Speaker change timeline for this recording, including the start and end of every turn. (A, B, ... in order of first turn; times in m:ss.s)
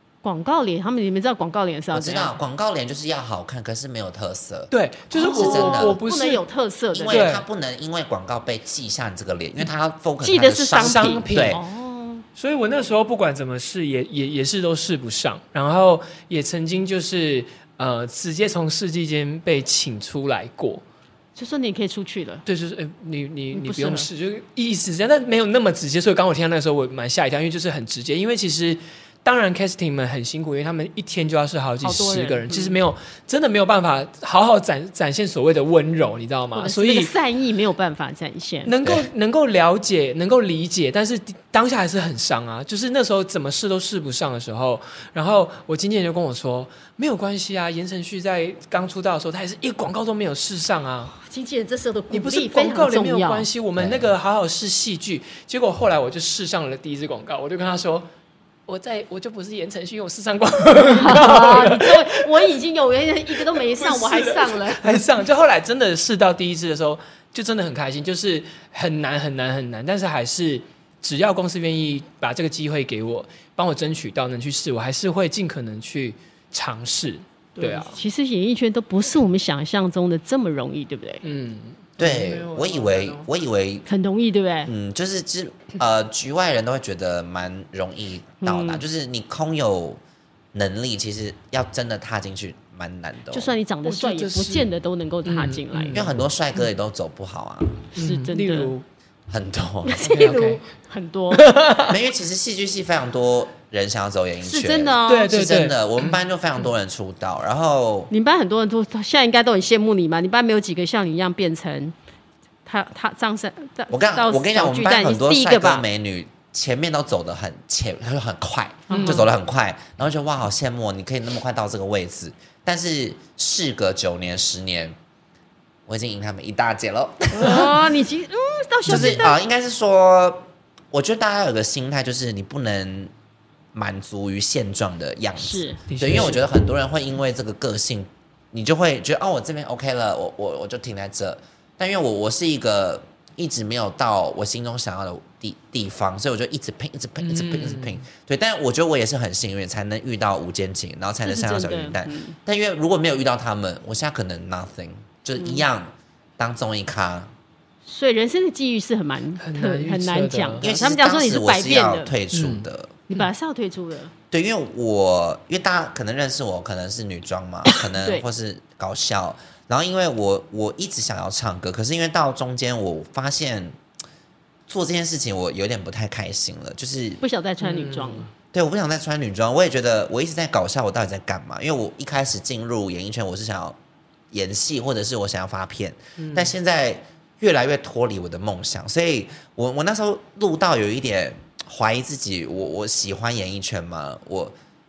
0:00.2-0:02.4 A
0:01.9-0:04.7 B
0:04.7-0:06.4 C
0:05.1-0:07.2 A
0:05.3-0:06.0 B
0:06.9-0:11.6 B
0:07.1-0:07.4 C
0:10.2-0:12.2 A
0:10.8-0:11.6 C
0:12.4-0:20.8 C
0:21.4-0:22.4 A
0:22.5-0:37.1 C
0:23.5-0:24.1 A
0:31.8-0:32.8 A
0:36.6-0:38.8 A
0:38.6-0:51.2 C
0:38.8-0:39.1 B
0:51.2-0:53.5 A
0:52.1-0:58.1 C
0:53.8-0:54.1 B
0:58.7-1:02.3 C
1:00.8-1:05.1 A
1:03.3-1:18.0 C
1:17.6-1:21.2 A
1:21.2-1:23.3 C
1:22.0-1:23.9 B
1:23.9-1:24.7 A
1:24.7-1:30.0 B
1:28.4-1:28.8 A
1:30.5-1:33.6 B
1:33.3-1:36.1 A
1:33.8-1:34.7 C
1:35.2-1:36.1 C
1:35.9-1:37.8 B
1:37.9-1:38.8 C
1:38.0-1:38.7 A
1:39.3-1:40.0 B
1:39.8-1:41.6 A
1:40.0-1:40.6 C
1:41.3-1:41.9 C
1:41.8-1:48.1 B
1:44.4-1:45.4 A
1:45.1-1:46.2 C
1:48.1-1:52.0 A
1:52.7-1:55.9 A
1:53.9-2:05.0 B
1:58.9-1:59.3 A
1:58.9-1:59.3 C
2:05.9-2:07.8 B
2:07.3-2:09.4 A
2:08.9-2:13.1 B
2:13.7-2:37.3 B
2:15.4-2:15.8 A
2:15.9-2:16.4 C
2:27.2-2:28.0 C
2:31.2-2:32.4 A
2:35.4-2:35.6 A
2:37.8-2:42.1 A
2:39.4-2:40.6 C
2:40.6-2:43.0 B
2:42.3-2:43.3 C
2:43.1-2:44.1 A
2:44.3-2:53.8 B
2:48.0-2:48.2 A
2:54.7-2:57.2 B
2:57.2-2:58.3 A
2:57.6-2:58.3 C
2:58.5-3:03.8 B
3:04.3-3:14.5 B
3:06.2-3:06.5 C